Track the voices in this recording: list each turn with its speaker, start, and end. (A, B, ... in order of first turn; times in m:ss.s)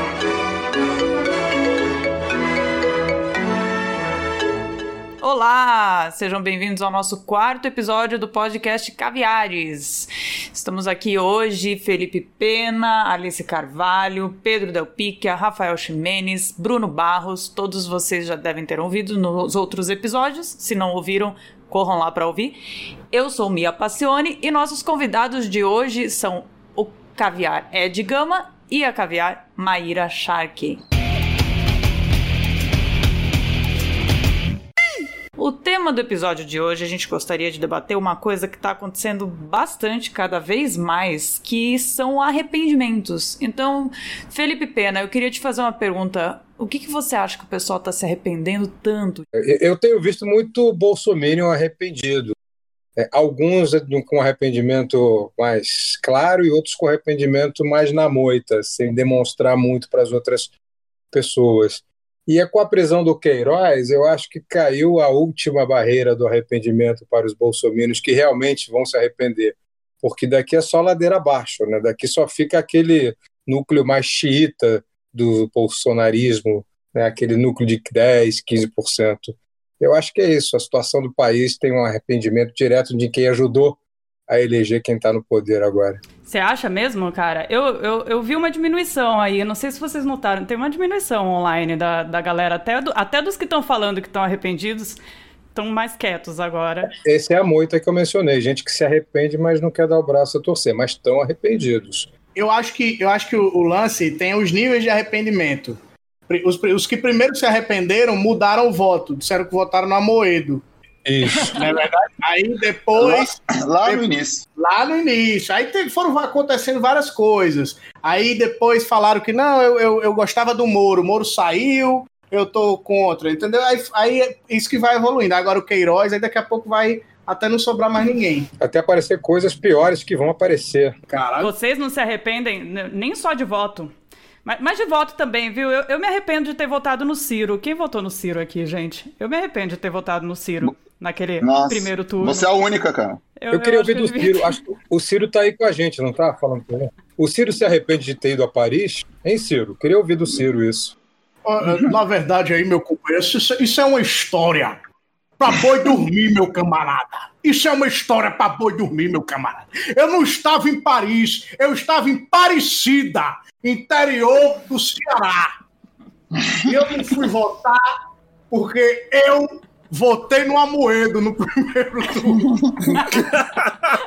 0:05.2-0:22.6 A
0:23.1-0:30.8 A
0:35.4-0:49.2 A
0:49.3-0:52.4 B
0:53.0-1:00.5 B
1:01.1-1:26.0 B
1:26.3-1:35.0 A
1:35.6-1:36.9 A
1:37.0-1:42.1 B
1:42.4-1:50.6 C
1:51.0-1:51.6 B
1:51.5-2:08.5 C
1:53.0-1:54.4 D
2:08.6-2:11.0 B
2:11.1-2:11.5 C
2:11.4-2:13.9 A
2:14.4-2:22.5 A
2:21.4-2:23.2 D
2:23.4-2:24.5 A
2:23.5-2:31.0 B
2:31.4-2:34.8 C
2:35.4-2:45.5 C
2:46.7-2:47.9 C
2:48.5-2:52.5 C
2:52.5-2:53.1 D